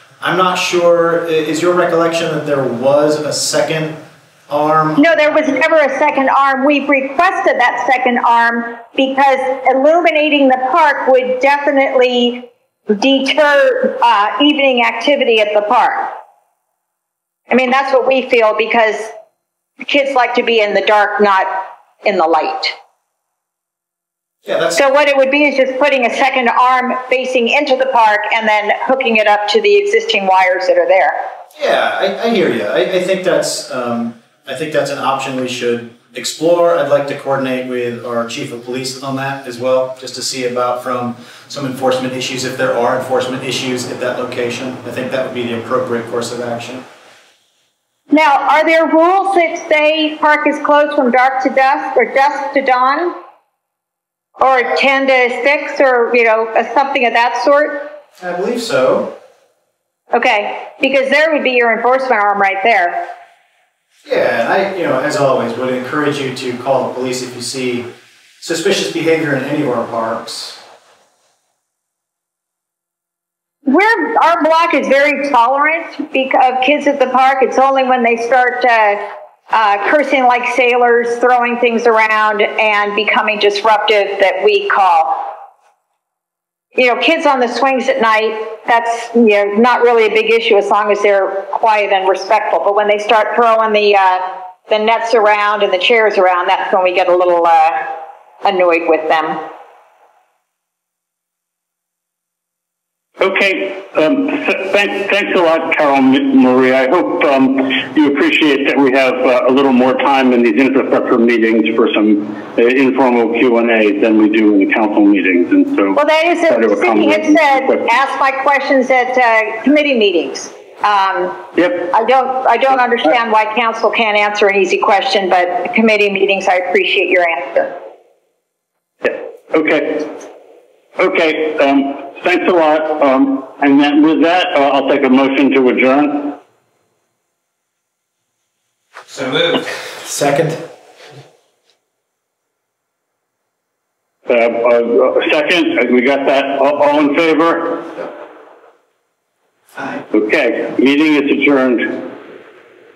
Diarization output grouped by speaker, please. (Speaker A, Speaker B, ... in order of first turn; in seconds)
Speaker A: 0.2-5.1, 24.4-24.9, 31.6-46.8, 58.2-59.1, 64.0-67.9, 68.4-70.6
Speaker B: 5.0-16.1, 17.5-19.1, 19.8-22.8, 24.8-31.2, 48.1-53.1, 54.4-57.9, 60.1-63.0, 73.7-85.3, 86.8-97.9, 98.4-99.4, 116.0-127.7
Speaker C: 103.2-116.0, 116.5-117.8, 121.6-121.9, 129.0-130.1, 131.0-136.4, 144.3-147.9, 150.1-151.9